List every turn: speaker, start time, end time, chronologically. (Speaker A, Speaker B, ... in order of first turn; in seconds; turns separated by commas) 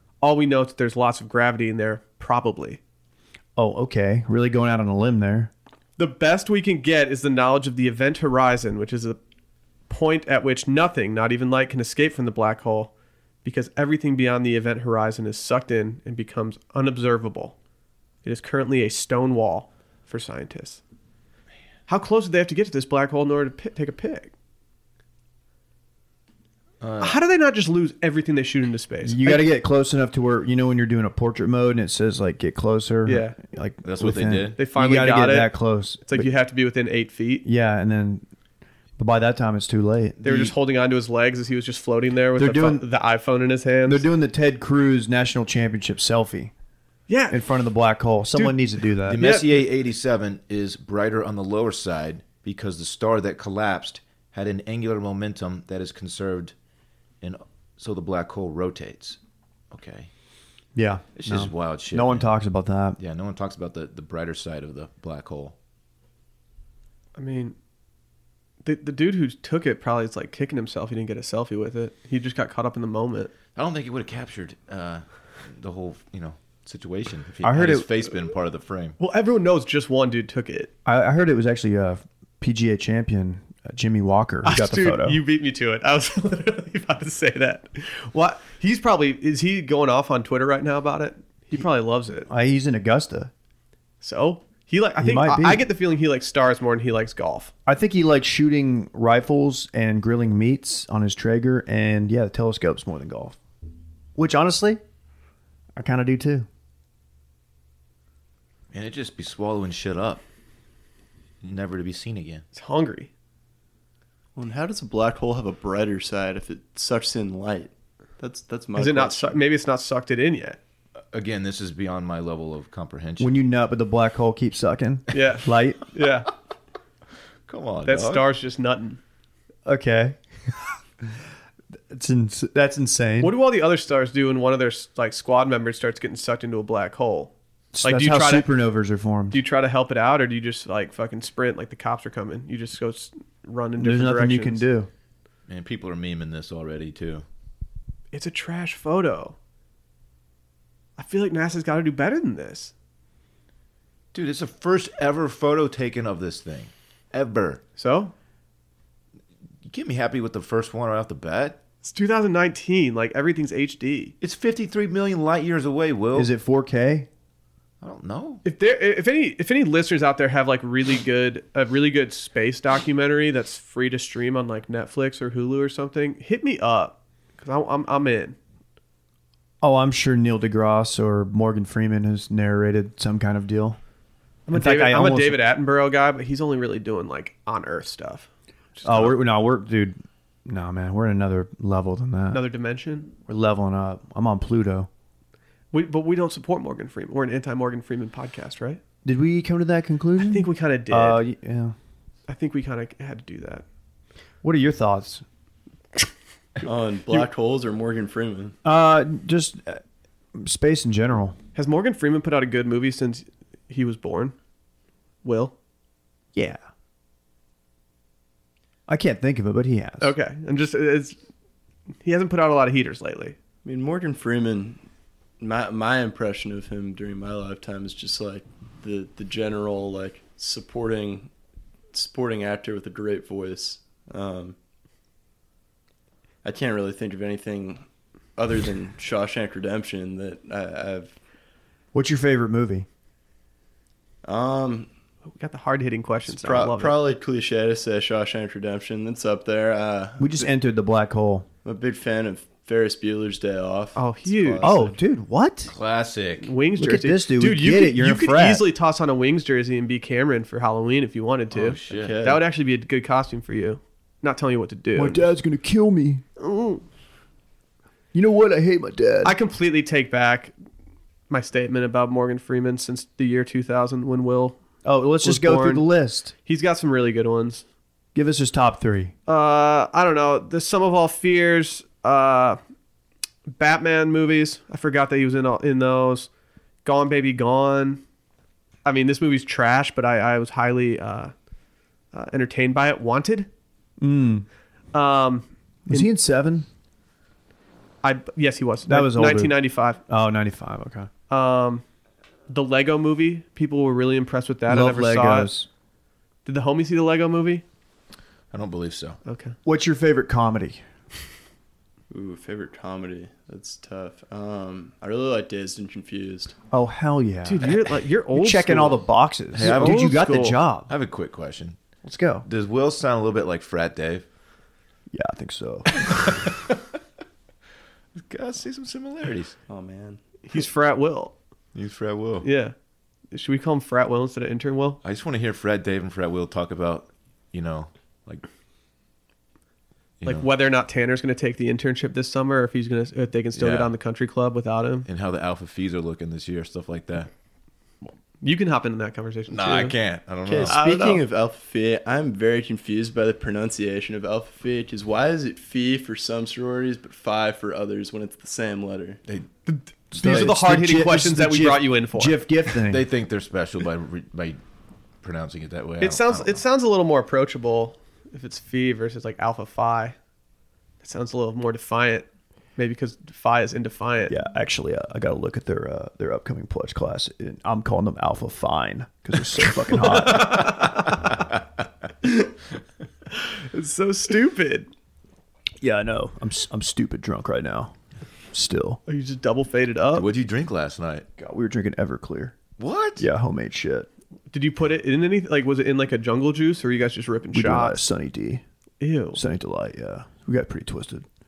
Speaker A: 0.2-2.8, Speaker B: 3.5-5.5, Speaker A: 6.0-9.2, Speaker A: 9.9-12.9, Speaker A: 13.4-17.5, Speaker A: 18.2-20.8, Speaker A: 21.9-24.3, Speaker C: 26.8-27.2, Speaker A: 27.0-29.5, Speaker B: 29.0-36.3, Speaker A: 33.0-33.4, Speaker C: 33.8-34.6, Speaker A: 34.6-35.5, Speaker A: 36.1-37.4, Speaker B: 37.4-38.2, Speaker B: 39.0-40.5, Speaker A: 40.2-44.0, Speaker B: 42.4-42.9, Speaker B: 43.9-46.5, Speaker A: 47.1-47.4, Speaker B: 47.3-49.2, Speaker A: 48.3-49.5, Speaker C: 49.1-56.5, Speaker C: 57.2-59.2, Speaker C: 59.7-60.1, Speaker B: 60.7-63.0, Speaker C: 61.1-62.2, Speaker C: 63.0-65.5, Speaker A: 67.2-67.5, Speaker A: 68.6-73.3, Speaker C: 73.5-75.0, Speaker C: 75.5-79.0, Speaker B: 77.4-77.8, Speaker A: 79.0-80.7, Speaker B: 80.8-85.2, Speaker A: 84.4-92.3, Speaker B: 92.3-93.3, Speaker A: 94.0-97.5, Speaker B: 95.0-95.6, Speaker B: 97.7-103.4, Speaker B: 104.2-104.8, Speaker B: 105.8-106.5, Speaker C: 108.7-110.2, Speaker C: 111.4-112.4, Speaker A: 112.5-113.1, Speaker D: 114.3-119.4, Speaker A: 118.8-120.6, Speaker C: 121.1-123.4, Speaker B: 123.2-125.8, Speaker A: 125.1-126.3, Speaker C: 127.5-128.3, Speaker A: 127.8-129.0, Speaker B: 129.7-130.2, Speaker B: 131.9-133.3, Speaker A: 133.2-137.3, Speaker B: 137.7-139.4, Speaker A: 137.8-138.5, Speaker A: 139.3-144.6, Speaker B: 143.8-144.9, Speaker C: 145.5-147.2, Speaker A: 148.1-149.3, Speaker A: 151.0-152.7, Speaker C: 154.1-157.6, Speaker A: 157.8-158.1, Speaker C: 159.6-161.6, Speaker A: 161.8-164.1, Speaker C: 164.2-166.3, Speaker B: 166.1-167.1, Speaker C: 167.8-168.4, Speaker A: 168.4-178.4, Speaker B: 179.6-183.8, Speaker A: 184.5-189.2, Speaker B: 184.5-185.4, Speaker B: 188.8-192.4, Speaker A: 192.3-193.1, Speaker B: 193.3-194.9, Speaker A: 195.7-198.8, Speaker B: 199.0-201.7, Speaker A: 200.2-201.2, Speaker A: 202.3-203.6, Speaker B: 204.4-205.2, Speaker D: 206.6-208.5, Speaker B: 208.6-209.8, Speaker B: 210.3-211.3, Speaker A: 211.5-214.3, Speaker A: 215.2-215.5, Speaker B: 216.3-216.6, Speaker B: 218.9-220.1, Speaker A: 220.0-221.2, Speaker A: 222.0-223.3, Speaker D: 223.6-224.8, Speaker D: 225.4-231.3, Speaker D: 231.9-234.6, Speaker D: 236.4-237.8, Speaker D: 238.3-241.1, Speaker B: 241.9-242.8, Speaker D: 244.2-244.9, Speaker A: 245.3-247.0, Speaker D: 246.3-250.5, Speaker B: 250.2-251.4, Speaker D: 251.6-254.9, Speaker A: 253.9-254.7, Speaker B: 254.6-255.7, Speaker C: 255.7-256.5, Speaker A: 256.4-265.3, Speaker B: 256.8-258.6, Speaker C: 261.5-262.2, Speaker D: 261.6-262.4, Speaker B: 265.0-266.2, Speaker A: 266.4-266.8, Speaker B: 268.1-269.4, Speaker A: 269.2-270.5, Speaker A: 271.3-274.6, Speaker B: 274.8-276.3, Speaker A: 275.2-275.9, Speaker A: 276.4-277.6, Speaker B: 278.1-279.1, Speaker A: 279.3-282.6, Speaker A: 283.6-286.3, Speaker A: 286.8-288.0, Speaker A: 288.8-291.3, Speaker A: 292.1-293.5, Speaker B: 294.0-294.4, Speaker A: 294.9-296.1, Speaker B: 295.9-296.7, Speaker A: 298.0-300.0, Speaker B: 298.9-299.6, Speaker B: 300.1-301.1, Speaker A: 301.3-301.8, Speaker A: 302.5-305.5, Speaker B: 304.7-305.7, Speaker A: 306.4-307.6, Speaker C: 308.5-309.2, Speaker A: 309.2-309.5, Speaker B: 309.6-310.8, Speaker D: 312.1-316.5, Speaker B: 316.7-317.8, Speaker A: 317.4-319.0, Speaker B: 318.3-320.9, Speaker C: 319.5-320.2, Speaker A: 319.6-320.6, Speaker C: 320.9-321.8, Speaker B: 322.0-322.4, Speaker C: 322.4-324.2, Speaker B: 325.1-325.9, Speaker C: 325.9-326.8, Speaker C: 328.1-329.5, Speaker D: 329.7-330.2, Speaker A: 330.4-331.3, Speaker C: 331.7-332.5, Speaker A: 332.4-332.7, Speaker A: 333.3-335.0, Speaker C: 335.0-338.4, Speaker C: 340.2-340.5, Speaker A: 340.2-345.1, Speaker C: 343.6-343.9, Speaker C: 345.1-347.3, Speaker A: 348.4-349.9, Speaker C: 349.5-350.8, Speaker D: 350.4-359.2, Speaker A: 350.6-351.2, Speaker A: 359.7-362.4, Speaker B: 360.1-363.1, Speaker C: 360.2-360.5, Speaker C: 362.9-364.6, Speaker C: 365.2-366.6, Speaker A: 366.0-370.1, Speaker A: 371.0-374.4, Speaker B: 374.3-380.9, Speaker A: 380.0-381.2, Speaker A: 383.3-384.9, Speaker B: 385.8-387.9, Speaker B: 388.5-389.0, Speaker A: 389.1-390.3, Speaker C: 390.1-391.2, Speaker B: 391.4-392.6, Speaker C: 392.8-393.3, Speaker B: 393.2-394.1, Speaker A: 394.5-398.0, Speaker B: 397.5-398.6, Speaker A: 399.0-399.4, Speaker B: 399.3-401.2